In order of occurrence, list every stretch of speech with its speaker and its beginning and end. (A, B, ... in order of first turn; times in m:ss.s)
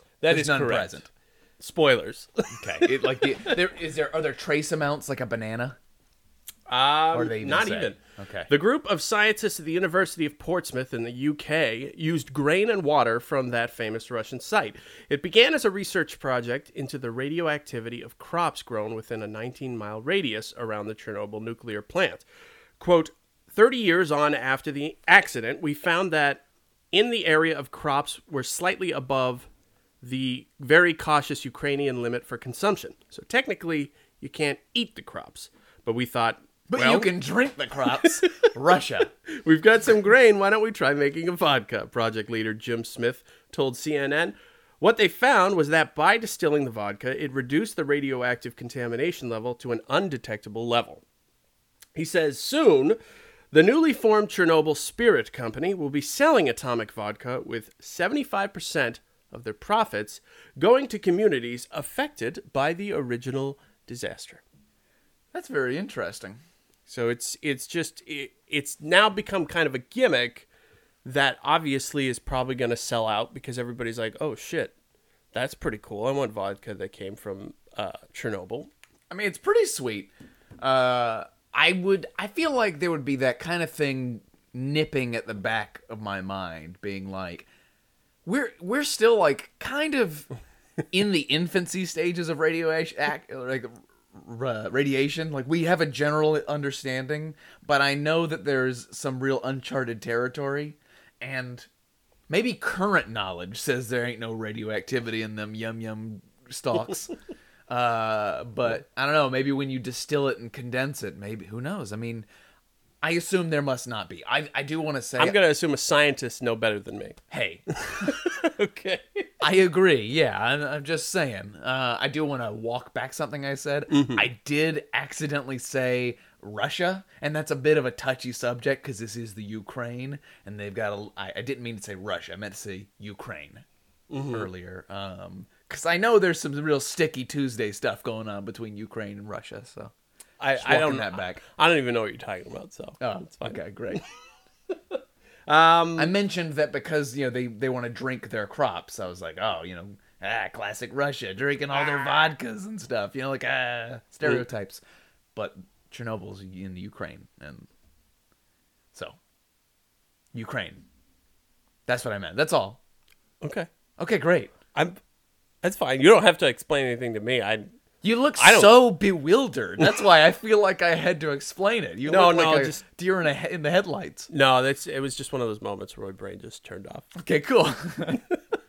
0:00.2-0:01.0 A
0:00.2-0:01.1 B
0:01.6-0:03.5 A
0:02.5-0:05.8 B
0:06.7-0:22.2 A
0:07.1-0:08.5 B
0:22.8-0:29.5 A
0:30.0-0:37.1 A
0:36.7-0:39.1 B
0:38.0-0:38.5 A
0:39.3-0:51.0 A
0:51.9-0:53.0 A
0:53.5-1:04.4 A
1:05.3-1:06.4 B
1:06.9-1:10.5 A
1:11.0-1:14.7 A
1:15.3-1:18.7 A
1:19.1-1:27.5 B
1:28.2-1:30.3 B
1:30.9-1:41.7 B
1:42.3-1:47.1 B
1:47.7-1:52.3 B
1:53.0-1:55.4 B
1:55.2-1:57.2 A
1:57.3-1:58.2 B
1:57.8-1:59.3 A
1:59.4-2:13.6 B
2:03.9-2:04.3 A
2:14.1-2:14.5 A
2:14.3-2:19.9 B
2:20.4-2:23.6 A
2:20.6-2:21.4 B
2:23.0-2:24.0 B
2:24.7-2:26.1 A
2:26.0-2:34.8 B
2:35.3-2:37.7 B
2:40.3-2:40.8 B
2:41.9-2:42.8 B
2:43.4-2:43.7 A
2:44.0-2:44.5 B
2:44.7-2:45.0 A
2:45.6-2:47.7 A
2:48.0-2:54.3 B
2:48.4-2:48.8 A
2:52.0-2:52.8 A
2:54.3-2:57.1 A
2:57.1-2:58.2 B